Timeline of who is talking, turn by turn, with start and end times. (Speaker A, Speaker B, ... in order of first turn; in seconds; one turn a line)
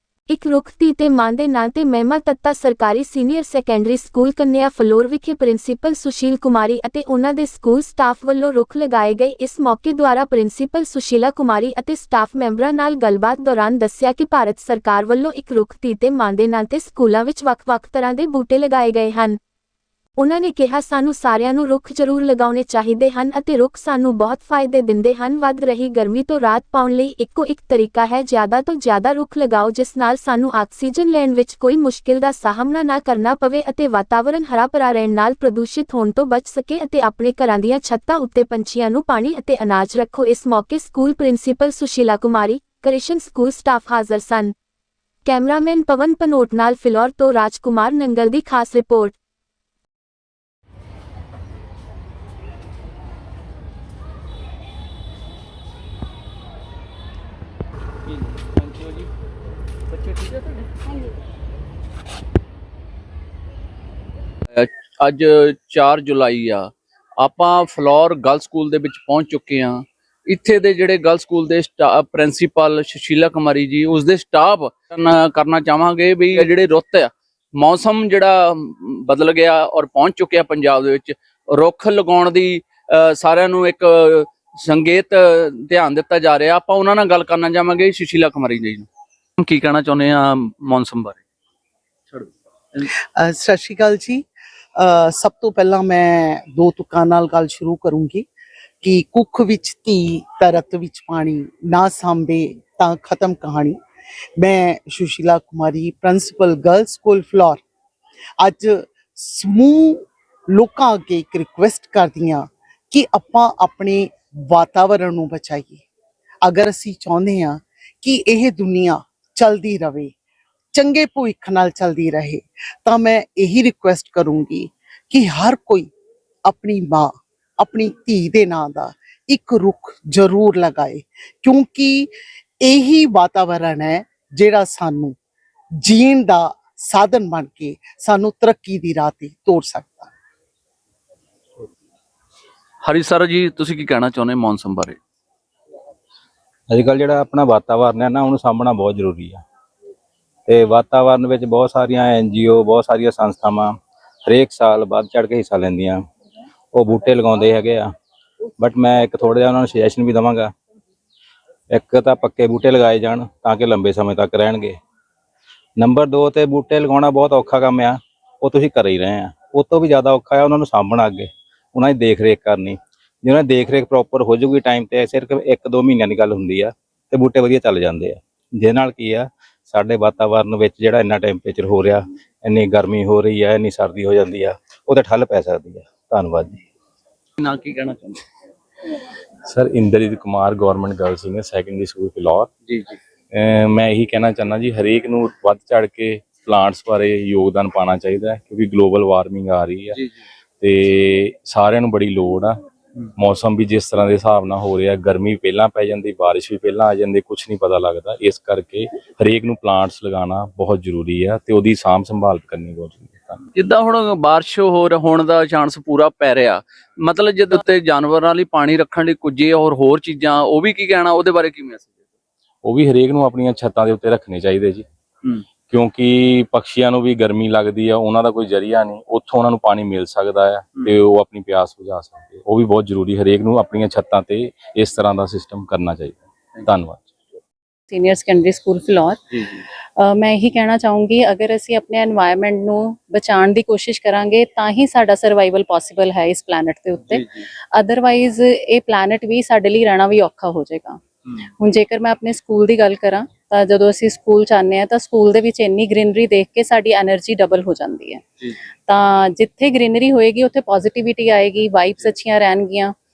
Speaker A: 0.3-19.4
Speaker A: 20.2-44.5
Speaker A: 45.2-49.1
Speaker B: 58.6-59.0
Speaker B: 64.5-88.9
Speaker B: 89.4-91.2
Speaker C: 93.2-94.2
Speaker C: 94.8-98.2
Speaker C: 98.8-103.8
Speaker C: 104.4-107.6
Speaker C: 108.4-115.8
Speaker C: 116.4-120.1
Speaker C: 120.7-125.9
Speaker C: 126.5-132.1
Speaker C: 132.6-135.2
Speaker C: 135.8-140.1
Speaker B: 142.8-145.0
Speaker D: 146.7-149.4
Speaker D: 150.5-156.1
Speaker D: 156.7-157.9
Speaker D: 158.6-160.5
Speaker D: 161.7-164.8
Speaker D: 165.8-186.6
Speaker B: 187.4-188.2
Speaker E: 189.5-192.5
Speaker B: 192.7-192.9
Speaker E: 193.3-200.0
Speaker E: 200.6-202.6
Speaker E: 203.2-213.4
Speaker B: 213.5-221.9
Speaker E: 222.6-224.8
Speaker E: 225.7-237.1
Speaker F: 237.9-258.2
Speaker F: 258.9-262.9